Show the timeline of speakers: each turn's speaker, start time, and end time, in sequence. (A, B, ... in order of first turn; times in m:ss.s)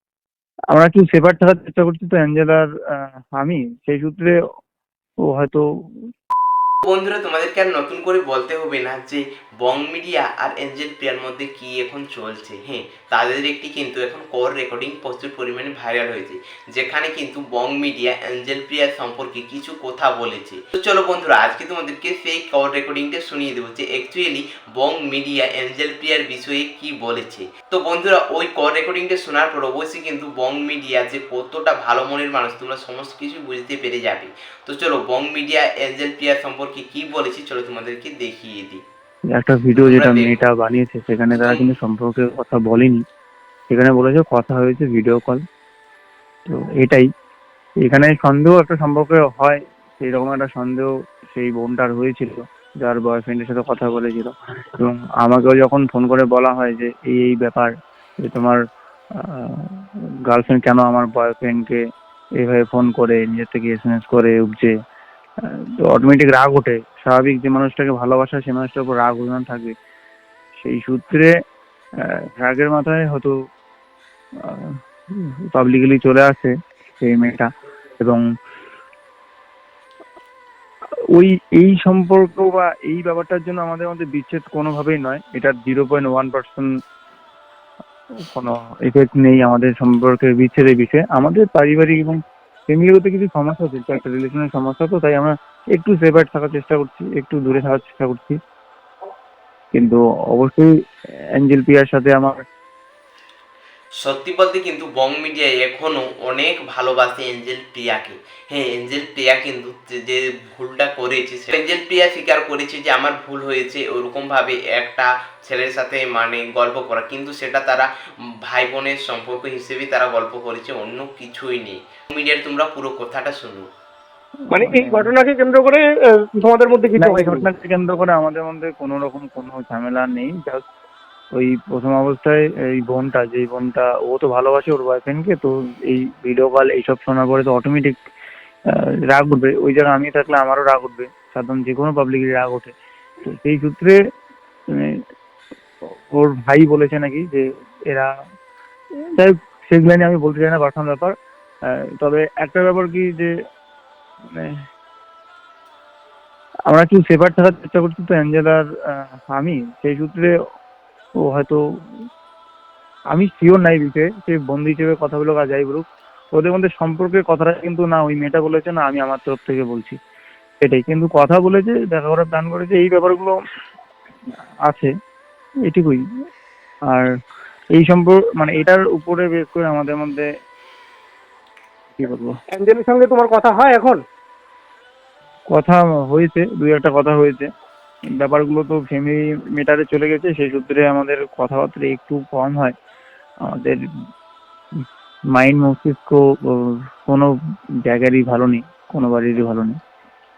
0:00.7-0:02.7 A
0:03.4-0:04.4 A
0:05.3-0:05.6 A
0:06.8-0:38.8 B
0:39.3-0:43.0 A
0:39.8-0:40.4 B
0:41.4-0:41.7 B
0:43.7-0:45.4 A
0:46.5-0:47.1 A
0:47.8-0:57.7 A
0:58.2-0:58.6 A
0:59.4-0:59.6 A
1:00.3-1:01.8 A
1:02.4-1:04.7 A
1:05.8-1:09.7 A
1:10.6-1:11.3 A
1:12.1-1:13.3 A
1:14.4-1:14.7 A
1:15.5-1:17.5 A
1:18.0-1:18.2 A
1:21.1-1:26.7 A
1:28.3-1:38.4 A
1:39.7-1:40.7 A
1:41.4-1:42.4 A
1:44.0-1:57.9 B
1:58.5-2:03.7 B
2:04.5-2:07.5 C
2:04.5-2:05.1 A
2:07.0-2:10.6 A
2:11.4-2:18.0 A
2:18.7-2:22.7 A
2:23.3-2:24.0 A
2:26.1-2:28.1 A
2:29.2-2:31.1 A
2:32.0-2:33.3 A
2:36.7-2:38.6 A
2:39.3-2:40.3 A
2:41.3-2:41.6 A
2:43.1-2:50.0 A
2:50.6-2:53.3 A
2:54.7-2:54.9 A
2:55.7-2:56.0 A
2:57.8-3:00.3 A
3:02.0-3:02.3 A
3:02.5-3:04.0 C
3:05.5-3:07.5 A
3:08.2-3:12.7 A
3:13.5-3:13.8 A
3:15.3-3:17.3 A
3:17.8-3:19.8 A